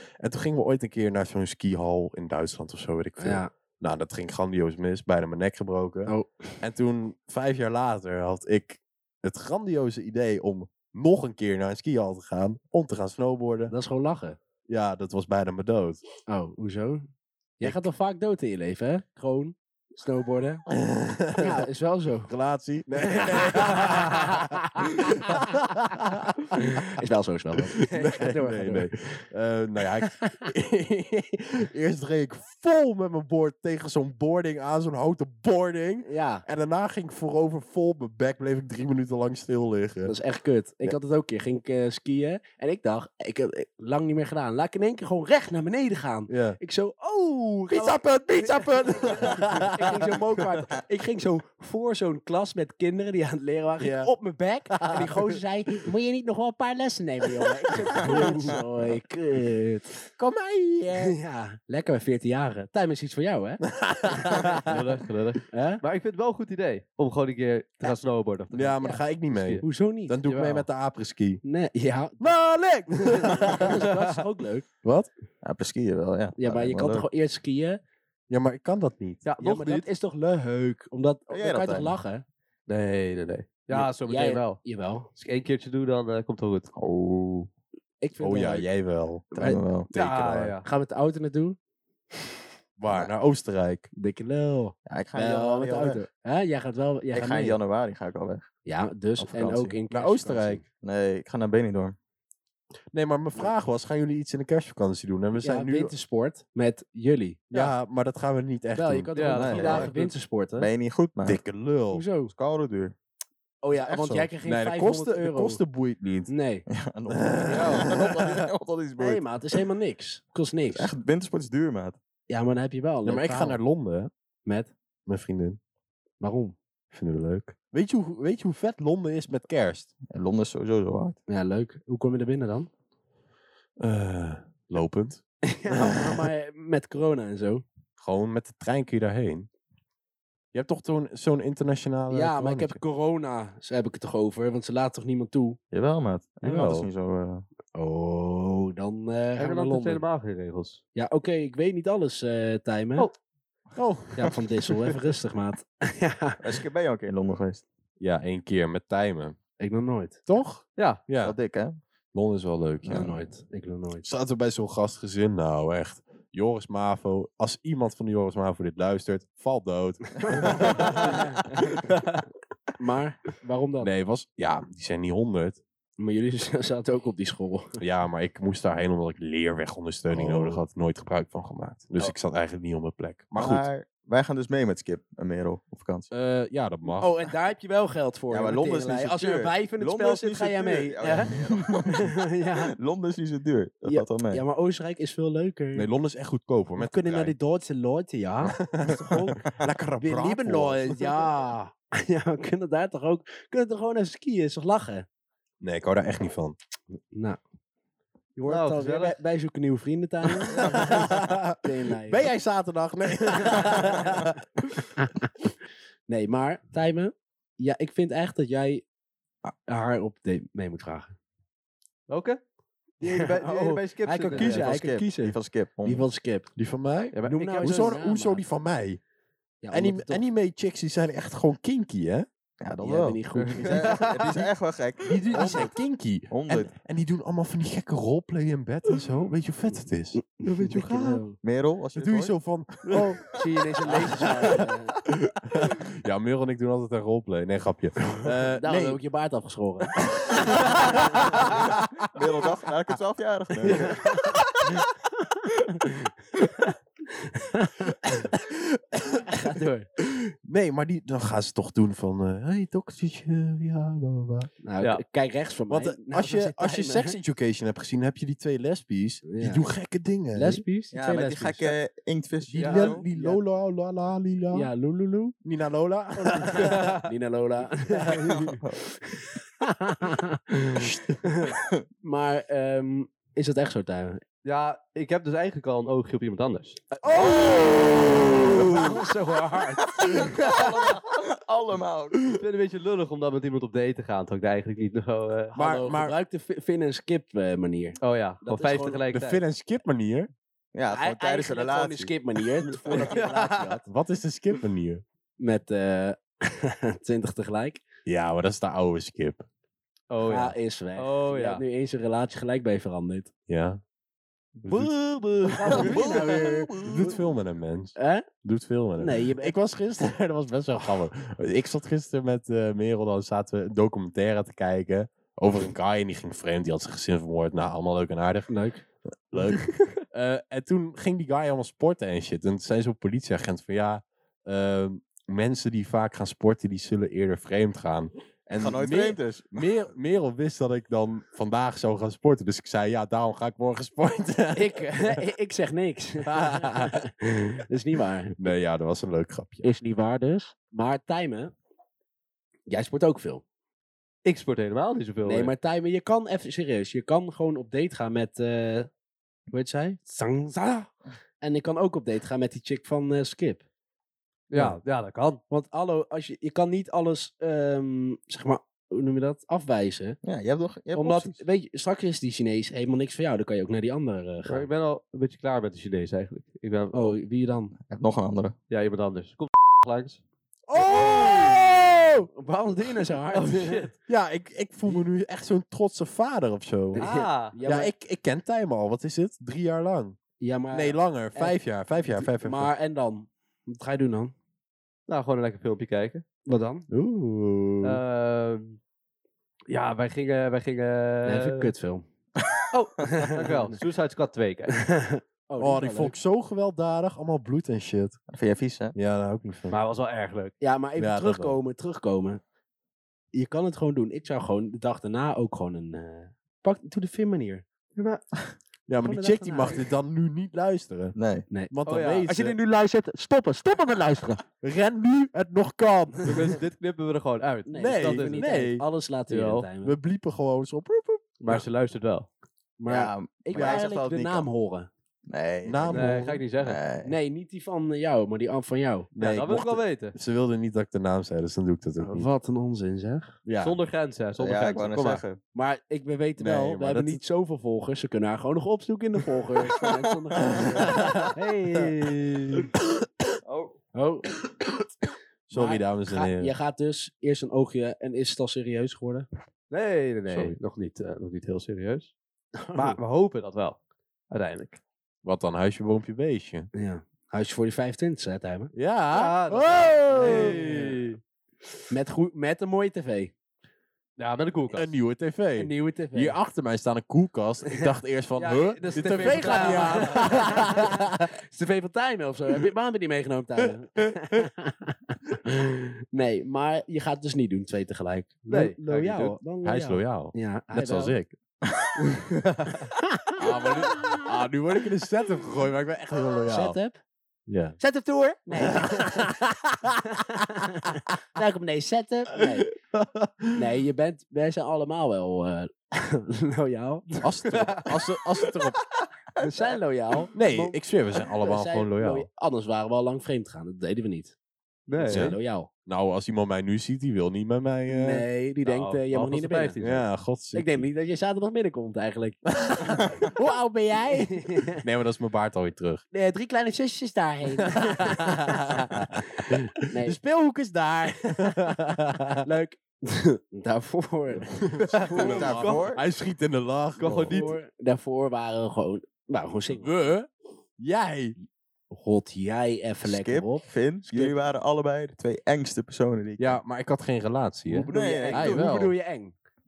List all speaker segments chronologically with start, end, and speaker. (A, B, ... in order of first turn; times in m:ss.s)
0:00.2-0:13.7 A
0:03.2-0:03.5 B
0:06.1-0:06.5 B
0:13.7-0:14.4 B
0:14.7-0:16.0 A
0:16.3-0:20.6 B
0:20.7-0:21.6 A
0:21.4-0:22.3 B
0:22.3-0:26.8 A
0:23.1-0:25.5 B
0:26.6-0:28.9 B
0:27.7-0:40.2 A
0:36.0-0:36.4 B
0:40.0-1:00.0 B
0:46.3-0:46.6 A
0:47.7-0:50.2 A
0:53.8-0:54.1 A
0:54.7-0:55.4 A
0:57.7-0:58.6 A
1:00.2-1:01.2 A
1:00.9-1:03.7 B
1:03.7-1:04.7 A
1:04.5-1:08.8 C
1:05.5-1:05.8 B
1:08.5-1:11.4 A
1:09.3-1:09.6 C
1:09.6-1:10.2 B
1:10.2-1:10.6 C
1:11.4-1:12.3 B
1:12.2-1:13.9 A
1:13.0-1:14.6 B
1:13.8-1:14.0 C
1:14.8-1:15.1 A
1:15.4-1:17.1 D
1:16.4-1:17.8 B
1:18.3-1:19.2 A
1:19.2-1:19.9 C
1:19.4-1:22.2 B
1:21.3-1:22.0 D
1:22.7-1:24.6 C
1:23.7-1:25.1 B
1:25.2-1:26.7 C
1:26.7-1:27.5 D
1:28.0-1:28.7 B
1:28.2-1:29.2 A
1:29.3-1:29.6 B
1:29.3-1:29.9 D
1:29.9-1:30.6 A
1:29.9-1:30.6 C
1:30.6-1:31.6 B
1:32.8-1:33.9 A
1:33.9-1:37.6 B
1:34.9-1:36.0 D
1:37.1-1:38.5 D
1:38.6-1:40.6 B
1:39.2-1:39.8 D
1:39.9-1:40.6 A
1:40.8-1:42.0 D
1:42.9-1:45.9 A
1:45.4-1:47.7 B
1:47.5-1:49.8 A
1:48.7-1:50.7 B
1:49.1-1:50.1 C
1:49.3-1:49.9 D
1:50.6-1:51.4 D
1:51.2-1:52.0 A
1:51.9-1:52.3 B
1:52.3-1:52.9 D
1:53.6-1:55.6 B
1:54.0-1:56.3 A
1:56.3-1:56.7 B
1:56.7-1:59.2 D
1:57.1-1:58.4 A
1:57.5-1:57.9 C
1:59.0-2:00.9 B
2:00.7-2:02.0 D
2:02.3-2:03.6 B
2:03.0-2:04.1 A
2:04.4-2:04.7 B
2:05.1-2:05.6 A
2:06.2-2:06.6 B
2:06.9-2:09.9 A
2:10.1-2:11.2 D
2:11.3-2:12.7 B
2:13.8-2:16.3 A
2:15.4-2:17.6 B
2:18.0-2:19.5 A
2:20.5-2:22.8 A
2:22.1-2:25.6 B
2:25.7-2:27.4 D
2:26.4-2:26.9 A
2:27.7-2:30.0 B
2:29.4-2:30.8 C
2:30.9-2:33.1 B
2:33.8-2:34.3 A
2:34.2-2:36.5 B
2:36.4-2:37.6 D
2:38.0-2:39.4 A
2:39.6-2:40.2 B
2:40.3-2:41.4 A
2:41.2-2:41.8 D
2:42.1-2:43.2 A
2:42.9-2:44.0 B
2:44.0-2:51.6 A
2:50.2-2:51.4 B
2:50.4-2:51.1 D
2:52.8-2:53.9 B
2:53.8-2:55.6 A
2:56.0-2:57.8 B
2:57.8-3:03.7 A
3:00.2-3:00.6 D
3:03.3-3:06.1 D
3:06.1-3:07.2 A
3:07.0-3:12.7 B
3:08.3-3:14.4 D
3:13.8-3:15.9 B
3:15.7-3:17.3 A
3:16.8-3:19.4 B
3:18.4-3:21.2 A
3:20.0-3:25.0 B
3:25.6-3:26.6 A
3:27.1-3:27.4 B
3:28.4-3:32.3 B
3:28.5-3:29.2 C
3:30.5-3:34.4 A
3:33.4-3:34.1 B
3:36.1-3:38.8 B
3:39.4-3:41.1 B
3:42.1-3:42.4 C
3:43.0-3:44.7 C
3:43.0-3:46.5 B
3:44.3-3:46.0 D
3:46.6-3:49.0 A
3:47.1-3:48.0 C
3:47.2-3:48.4 B
3:49.6-3:50.2 B
3:49.7-3:52.3 A
3:52.6-3:55.7 D
3:52.8-3:54.0 B
3:53.3-3:54.4 C
3:55.0-4:00.2 A
3:55.3-3:55.7 B
3:56.3-3:56.7 D
4:00.2-4:01.4 B
4:00.4-4:01.2 C
4:01.4-4:02.3 D
4:02.0-4:03.3 A
4:02.9-4:03.2 D
4:03.2-4:05.0 B
4:03.9-4:04.6 A
4:05.3-4:09.0 A
4:08.5-4:11.6 B
4:10.0-4:11.7 A
4:12.1-4:14.4 D
4:13.6-4:14.5 B
4:15.3-4:18.3 B
4:18.2-4:19.5 A
4:19.2-4:19.9 B
4:20.0-4:24.5 A
4:24.6-4:27.2 B
4:25.7-4:30.6 A
4:29.3-4:29.6 B
4:30.3-4:31.8 B
4:30.9-4:33.0 D
4:32.5-4:34.7 A
4:32.6-4:32.9 C
4:33.1-4:33.4 B
4:34.5-4:35.4 B
4:35.4-4:36.8 A
4:36.2-4:44.2 B
4:36.5-4:37.1 C
4:38.3-4:38.8 D
4:44.4-4:46.9 C
4:46.9-4:51.0 B
4:49.9-4:52.2 D
4:52.3-4:55.5 C
4:55.5-4:56.2 A
4:55.5-4:59.0 B
4:58.0-4:59.4 C
4:59.1-5:00.3 A
5:00.7-5:02.1 D
5:00.9-5:03.8 B
5:02.9-5:03.8 C
5:03.8-5:05.0 A
5:05.4-5:07.8 B
5:08.0-5:09.4 A
5:10.1-5:11.6 C
5:10.2-5:13.3 B
5:13.5-5:13.8 A
5:14.6-5:28.5 A
5:15.4-5:16.8 B
5:15.6-5:15.9 C
5:15.7-5:17.2 D
5:18.0-5:18.3 B
5:19.0-5:19.6 B
5:28.5-5:28.8 B
5:29.3-5:45.2 A
5:38.5-5:39.5 D
5:44.5-5:48.4 B
5:46.3-5:47.0 A
5:48.4-5:49.7 A
5:49.6-5:51.5 B
5:52.7-5:53.4 B
5:54.2-5:55.5 C
5:55.2-5:58.9 B
5:59.5-6:03.6 B
6:04.5-6:05.4 C
6:05.5-6:10.2 B
6:10.2-6:11.4 D
6:10.9-6:14.7 B
6:14.4-6:17.2 C
6:16.9-6:17.7 B
6:17.9-6:18.5 D
6:18.7-6:20.2 C
6:20.7-6:22.3 A
6:20.8-6:21.7 B
6:22.3-6:23.9 B
6:23.3-6:23.9 C
6:24.1-6:27.0 A
6:26.9-6:27.9 B
6:27.0-6:27.6 C
6:27.6-6:30.2 A
6:30.4-6:31.6 B
6:30.7-6:32.7 A
6:32.2-6:34.3 B
6:35.1-6:36.2 C
6:36.4-6:36.8 B
6:36.9-6:38.0 A
6:37.8-6:38.8 C
6:39.7-6:41.7 C
6:41.2-6:42.0 B
6:42.4-6:42.7 D
6:42.7-6:43.8 B
6:43.1-6:44.8 C
6:44.8-6:46.1 B
6:45.6-6:48.2 A
6:48.3-6:48.9 D
6:48.9-6:49.8 A
6:49.7-6:50.6 C
6:50.6-6:52.4 B
6:51.0-6:51.6 A
6:53.3-6:58.2 B
6:58.9-7:01.1 A
6:59.0-6:59.8 B
7:01.1-7:01.4 D
7:01.7-7:02.6 A
7:01.9-7:02.3 C
7:02.2-7:04.4 B
7:04.6-7:06.5 A
7:06.2-7:08.5 C
7:07.7-7:10.0 B
7:07.8-7:08.8 A
7:09.3-7:09.7 C
7:09.8-7:11.6 A
7:11.4-7:12.3 C
7:12.8-7:14.9 B
7:12.9-7:14.5 D
7:15.3-7:17.1 D
7:15.6-7:16.4 A
7:15.9-7:16.8 C
7:17.0-7:19.1 B
7:19.1-7:22.3 A
7:19.2-7:20.1 C
7:22.0-7:23.4 B
7:23.4-7:23.8 A
7:23.6-7:25.2 C
7:24.4-7:25.4 D
7:25.5-7:32.7 B
7:26.4-7:27.2 A
7:30.8-7:31.3 A
7:33.4-7:33.8 D
7:33.9-7:34.3 B
7:35.5-7:36.5 A
7:35.5-7:39.3 B
7:39.7-7:42.1 C
7:40.3-7:40.6 A
7:42.6-7:43.0 B
7:42.7-7:43.8 C
7:44.3-7:44.8 C
7:45.2-7:46.7 A
7:46.7-7:48.7 B
7:48.7-7:51.0 A
7:49.1-7:51.2 C
7:50.1-7:50.9 B
7:51.9-7:53.3 B
7:54.2-7:54.9 C
7:54.7-8:01.2 A
7:55.6-7:56.4 B
7:58.4-8:11.1 B
7:58.8-8:00.3 C
8:08.5-8:09.4 C
8:09.6-8:11.3 A
8:12.8-8:14.2 B
8:13.4-8:16.8 A
8:16.5-8:17.0 B
8:17.5-8:17.8 A
8:17.8-8:19.5 B
8:18.6-8:19.9 A
8:20.2-8:22.7 B
8:22.4-8:23.6 A
8:23.5-8:27.8 B
8:27.2-8:28.8 A
8:27.5-8:27.8 C
8:29.4-8:29.8 D
8:29.4-8:30.8 B
8:30.3-8:32.3 A
8:31.4-8:34.3 B
8:34.9-8:35.4 C
8:35.0-8:35.7 B
8:35.1-8:38.2 A
8:37.9-8:39.8 B
8:38.6-8:40.0 C
8:39.8-8:40.9 A
8:40.5-8:43.3 B
8:42.5-8:46.0 A
8:44.0-8:44.8 B
8:46.1-8:50.2 B
8:47.8-8:52.4 A
8:52.4-8:55.5 B
8:54.4-8:57.5 A
8:54.9-8:55.9 C
8:54.9-8:56.0 D
8:57.0-8:57.6 C
8:57.0-8:59.9 B
8:59.7-9:01.4 A
9:01.4-9:04.3 B
9:03.0-9:06.6 D
9:06.4-9:08.9 A
9:07.7-9:09.3 B
9:07.9-9:08.6 D